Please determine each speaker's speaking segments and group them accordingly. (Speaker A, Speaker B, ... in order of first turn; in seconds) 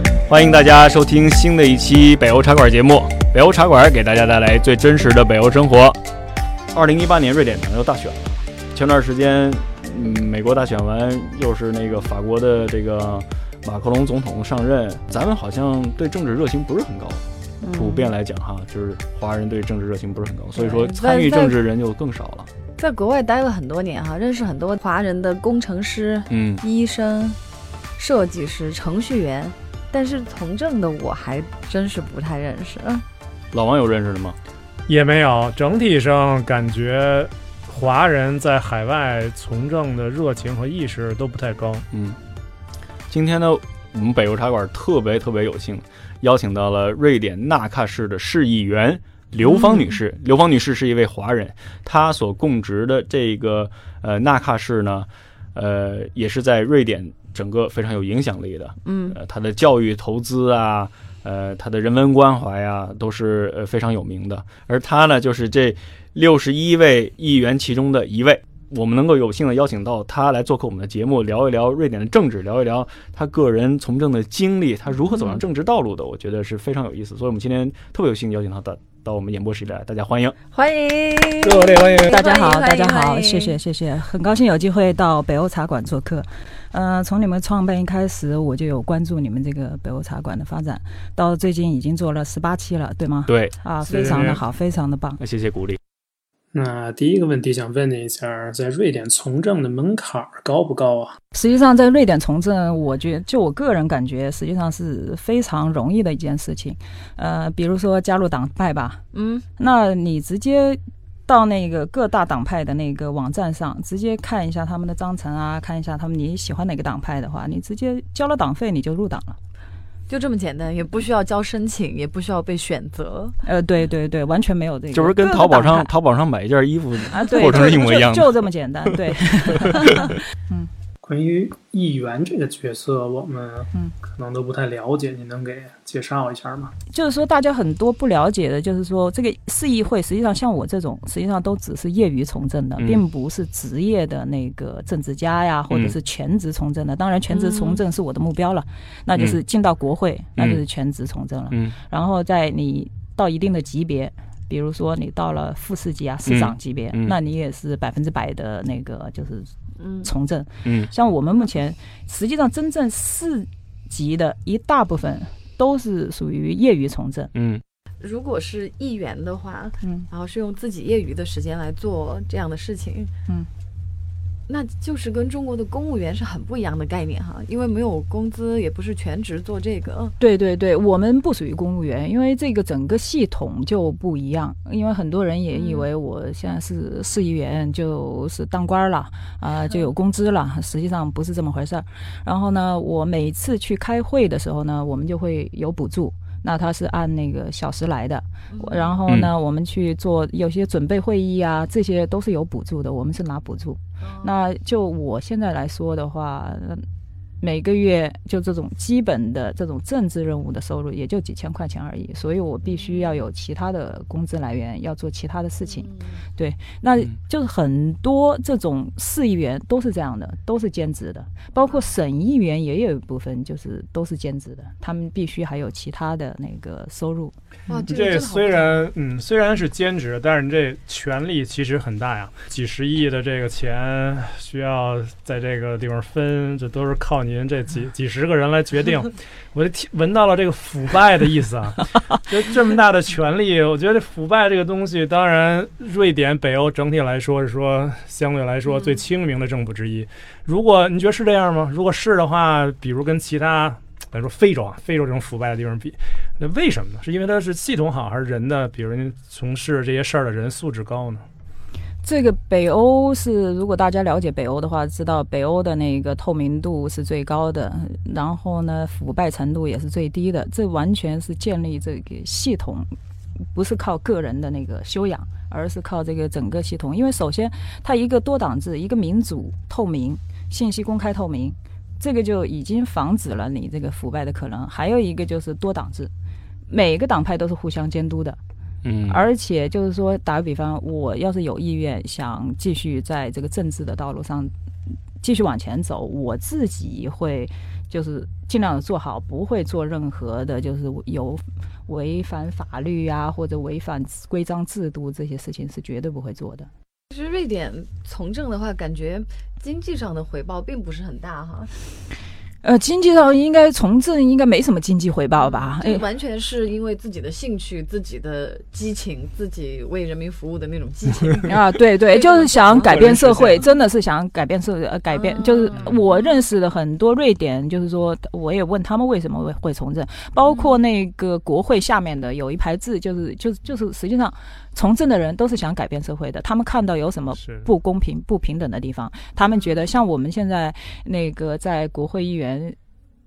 Speaker A: 0.2-6.0, 6.7-22.5, 26.3-26.6, 33.5-34.4, 41.9-42.2, 43.1-80.3, 93.3-93.5, 95.2-95.8, 124.9-130.2, 142.8-143.0, 145.7-145.9, 149.1-149.4, 150.4-150.6, 156.2-157.1, 160.6-160.9, 167.3-167.6, 288.8-289.3
Speaker B: 17.6-18.1, 20.6-21.6, 22.8-27.4, 28.0-33.0, 49.4-50.0, 58.8-59.2, 75.1-75.4, 80.5-83.6, 109.1-109.5, 120.1-123.4, 147.3-147.8, 159.8-160.1, 168.0-173.1, 174.5-180.2, 185.5-185.9, 198.5-199.0, 204.0-204.3, 212.7-213.1, 215.6-216.2, 221.6-221.9, 227.7-228.9, 307.1-311.7, 315.4-323.5, 325.1-326.3, 330.4-330.7
Speaker C: 34.9-41.8, 81.4-82.1, 93.8-94.4, 227.7-261.2, 322.8-323.6, 337.4-337.7
Speaker D: 82.0-95.2, 101.3-109.0, 109.6-119.4, 123.4-125.9, 127.1-130.7, 136.9-159.5, 160.0-167.3, 180.2-206.8, 207.4-227.3, 262.0-272.9, 273.5-286.1, 286.7-288.4, 289.1-294.5, 295.2-306.7, 312.6-316.0, 321.4-342.8
Speaker E: 96.5-101.2, 131.0-136.7